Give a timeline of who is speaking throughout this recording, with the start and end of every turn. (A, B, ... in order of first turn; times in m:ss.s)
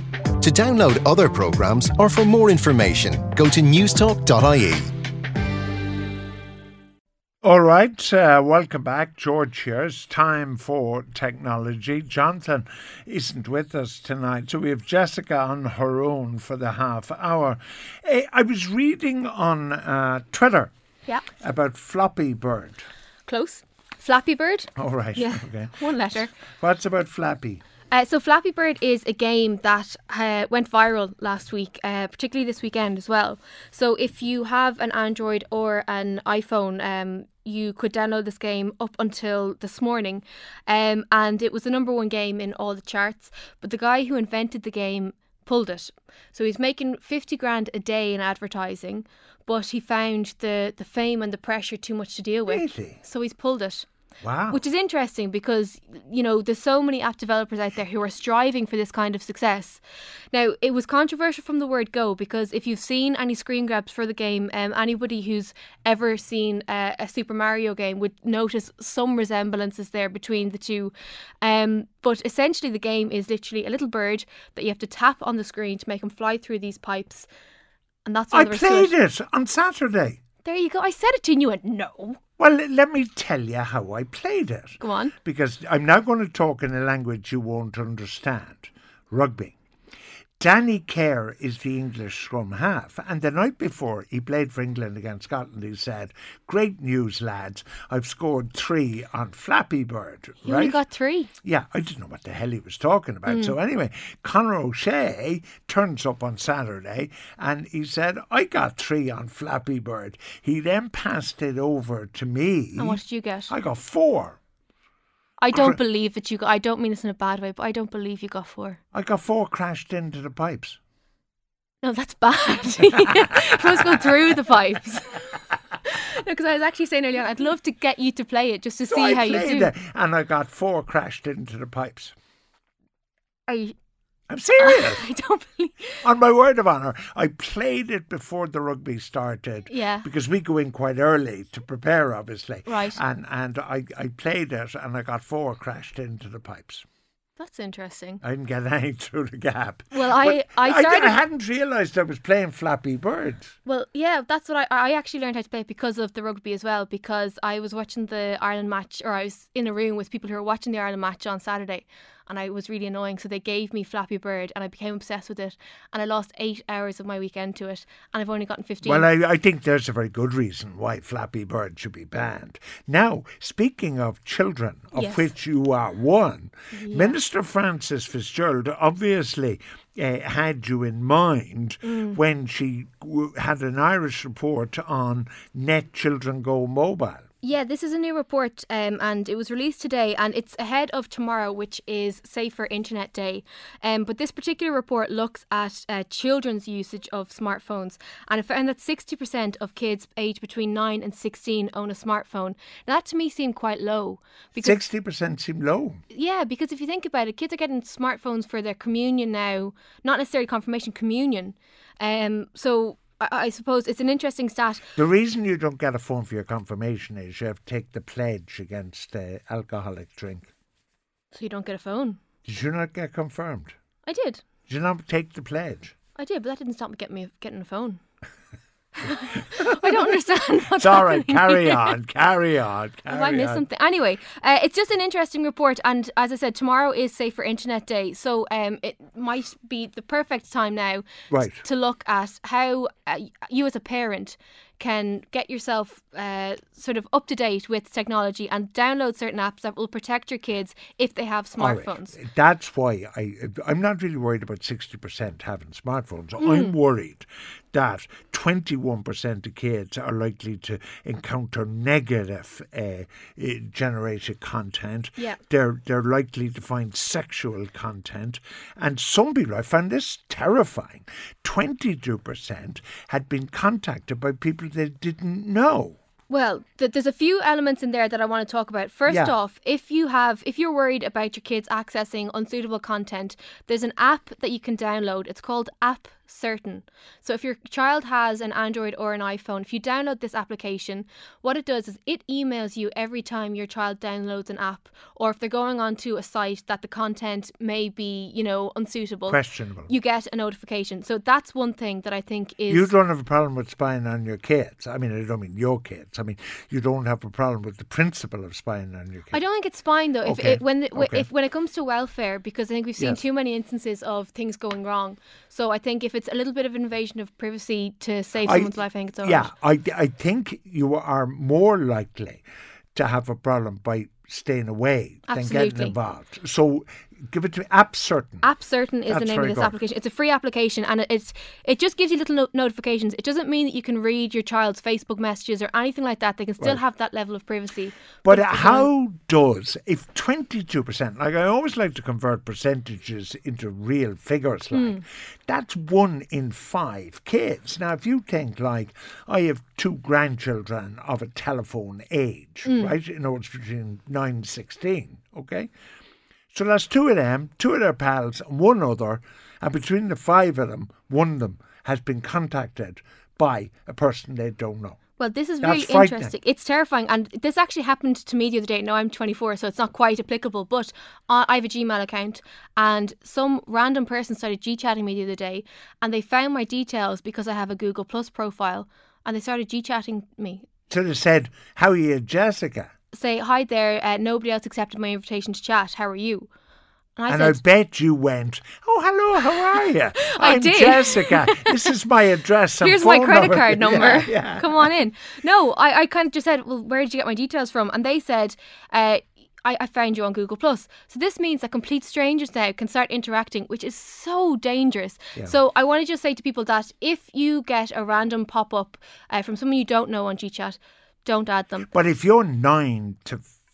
0:00.4-0:04.8 A
0:07.4-0:20.7 B
0:21.4-0:22.8 B
0:23.3-0:26.3 C
0:24.8-0:27.6 B
0:27.9-0:53.9 C
0:52.5-0:53.0 B
0:54.2-0:54.6 B
0:54.5-0:59.8 C
1:00.3-1:17.3 C
1:18.0-1:18.9 C
1:18.3-1:20.2 B
1:20.4-1:22.2 C
1:22.4-1:29.6 B
1:24.8-1:25.1 C
1:30.4-1:40.8 B
1:40.4-1:41.3 C
1:41.4-1:54.4 B
1:43.3-1:43.6 C
1:52.8-1:53.5 C
1:55.4-1:58.8 C
1:55.5-1:55.8 B
1:58.9-2:00.8 B
2:01.8-2:05.3 C
2:05.8-2:09.7 C
2:08.9-2:12.1 B
2:13.5-2:13.7 C
2:14.3-2:15.0 B
2:14.6-2:16.0 C
2:16.0-2:26.8 B
2:19.7-2:20.1 C
2:22.7-2:23.0 C
2:27.4-2:28.2 C
2:28.2-2:33.5 B
2:29.9-2:31.2 C
2:33.6-2:49.1 C
2:48.8-3:07.2 B
2:54.9-2:55.3 C
2:56.7-2:57.2 C
3:01.8-3:02.2 C
3:07.4-3:24.8 C
3:24.6-3:26.0 B
3:26.1-3:34.8 C
3:35.0-3:40.5 B
3:41.3-3:42.2 C
3:42.4-3:43.7 B
3:44.0-3:44.4 C
3:44.7-3:45.9 B
3:46.2-3:48.0 C
3:49.0-3:52.0 C
3:50.7-3:53.6 B
3:53.1-4:12.1 C
4:01.3-4:01.6 B
4:11.6-4:36.0 B
4:16.4-4:16.8 C
4:36.3-5:02.9 C
4:39.1-4:39.3 B
4:59.3-4:59.9 B
5:02.7-5:09.4 B
5:09.3-5:19.5 C
5:10.2-5:11.3 B
5:18.4-5:22.4 B
5:22.9-5:28.4 B
5:25.3-5:25.9 C
5:28.4-5:38.9 C
5:29.1-5:29.7 B
5:38.2-5:55.7 B
5:44.7-5:45.0 C
5:52.6-5:52.9 C
5:56.5-6:05.0 B
6:05.2-6:20.6 C
6:05.6-6:06.3 B
6:20.9-6:22.9 B
6:23.1-6:26.5 C
6:27.2-6:27.6 C
6:27.3-6:34.9 B
6:30.2-6:31.9 C
6:32.8-6:51.9 C
6:51.9-6:53.5 B